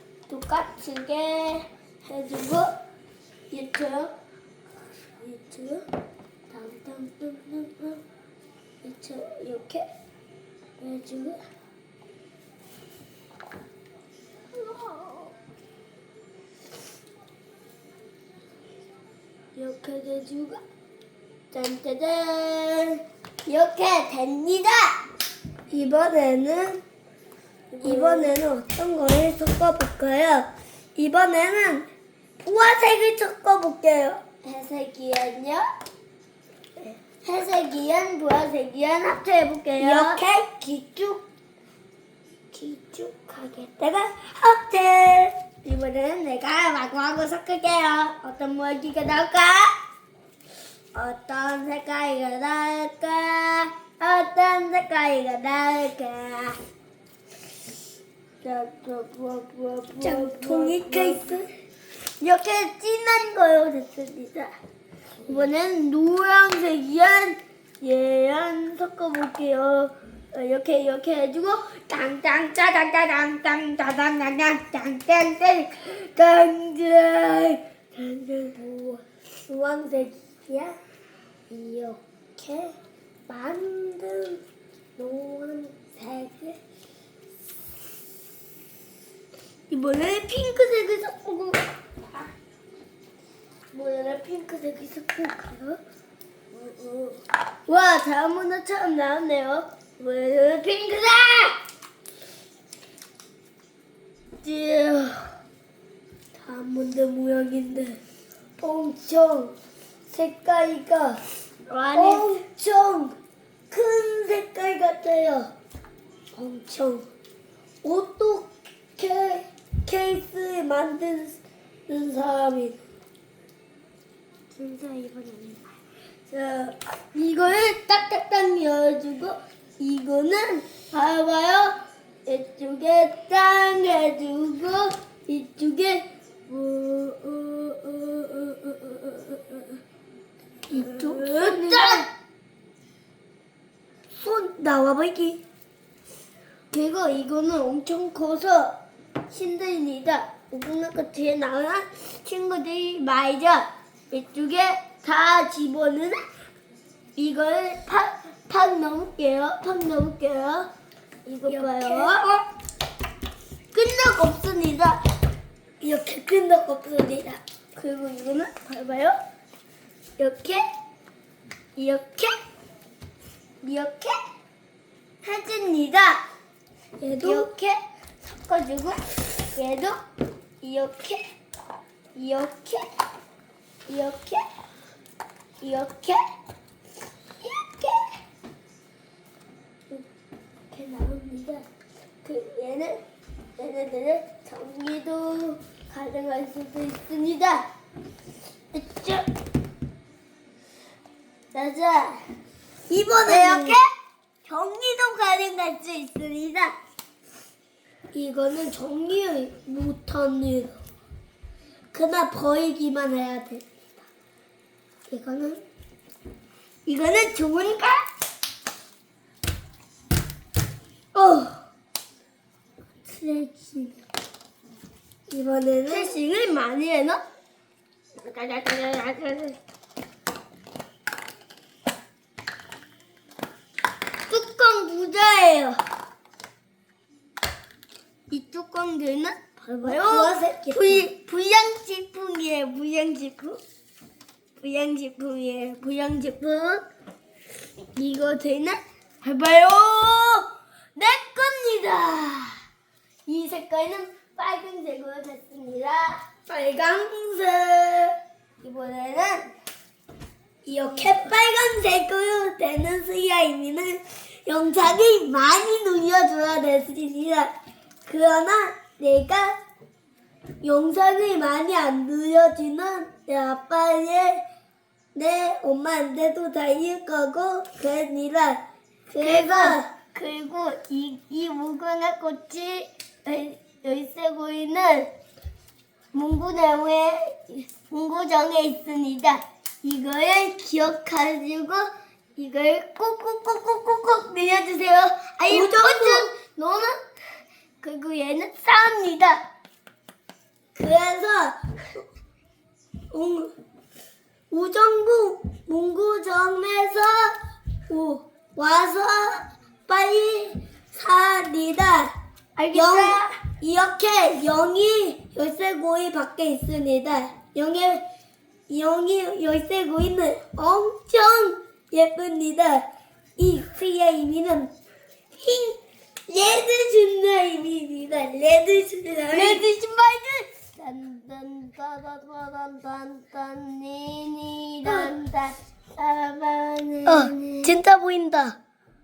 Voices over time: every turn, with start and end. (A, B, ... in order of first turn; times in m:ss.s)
0:00.3-0:02.7 A
0:03.5-0:04.1 A
0:05.2-0:05.8 A
0:06.5-0:08.0 A
0:08.8-0:09.8 A
0:10.8-0:11.4 A
0:14.5-0:15.3 A
0:19.6-0:20.6 A
0:21.5-0:25.0 A
0:25.7-0:26.8 B
0:27.7-0:28.3 A
0:27.8-0:31.8 B
0:32.4-0:34.2 B
0:34.4-0:35.6 A
0:37.2-0:40.2 A
0:39.8-0:41.1 B
0:42.5-0:45.3 B
0:45.6-0:49.8 A
0:50.9-0:56.6 A
0:58.4-1:01.2 A
1:00.0-1:01.5 B
1:02.2-1:04.5 A
1:05.2-1:12.2 A
1:12.1-1:15.7 B
1:15.5-1:18.6 A
1:18.5-1:20.7 B
1:21.5-1:22.7 B
1:23.3-1:24.4 B
1:25.0-1:26.6 B
1:29.7-1:31.6 A
1:33.7-1:35.8 A
1:36.5-1:41.6 A
1:44.4-1:45.3 A
1:46.4-1:48.0 B
1:48.6-1:49.5 B
1:50.1-1:51.2 B
1:51.7-1:52.3 A
1:51.9-1:53.2 B
1:53.7-1:55.5 B
1:56.3-1:57.0 B
1:57.8-2:02.8 B
2:04.5-2:05.6 A
2:06.3-2:19.8 A
2:20.7-2:22.0 B
2:20.7-2:22.0 A
2:24.1-2:25.4 B
2:26.7-2:28.7 A
2:29.3-2:36.2 A
2:37.2-2:40.7 A
2:41.2-2:42.2 A
2:41.5-2:42.4 B
2:43.7-2:45.0 A
2:45.8-2:47.4 B
2:47.8-2:49.2 A
2:50.2-2:50.6 A
2:51.8-2:52.3 A
2:53.6-2:54.2 A
2:55.2-2:56.2 A
2:57.0-2:57.5 B
2:57.2-2:59.0 A
2:59.5-3:00.0 A
3:00.6-3:01.0 A
3:00.6-3:01.1 B
3:02.2-3:02.8 A
3:03.9-3:04.4 A
3:05.6-3:06.2 A
3:07.4-3:08.2 A
3:10.7-3:11.6 A
3:12.2-3:13.0 A
3:13.6-3:17.6 A
3:18.7-3:19.2 A
3:21.5-3:22.2 A
3:22.9-3:23.8 B
3:23.2-3:23.8 A
3:24.4-3:26.7 A
3:28.1-3:30.8 B
3:31.9-3:33.6 B
3:35.1-3:35.6 B
3:36.8-3:38.0 A
3:41.1-3:41.6 B
3:43.1-3:43.9 A
3:45.3-3:46.2 B
3:45.8-3:47.2 A
3:48.2-3:49.6 A
3:54.3-3:55.8 A
3:58.3-4:03.6 A
3:59.8-4:01.1 B
4:04.6-4:06.8 A
4:08.0-4:12.6 A
4:13.3-4:16.4 A
4:16.5-4:18.1 B
4:18.6-4:19.5 A
4:20.6-4:27.5 B
4:28.0-4:29.5 B
4:30.6-4:34.4 B
4:35.1-4:39.8 B
4:39.2-4:45.1 A
4:46.1-4:57.0 A
4:55.5-4:56.3 B
4:57.8-4:59.4 A
5:00.7-5:01.5 B
5:03.1-5:03.5 B
5:04.5-5:07.3 B
5:07.9-5:12.1 B
5:12.6-5:13.2 A
5:12.7-5:18.0 B
5:18.7-5:22.8 B
5:23.4-5:24.7 B
5:25.4-5:29.6 B
5:29.3-5:37.7 A
5:34.8-5:35.1 B
5:37.0-5:38.6 B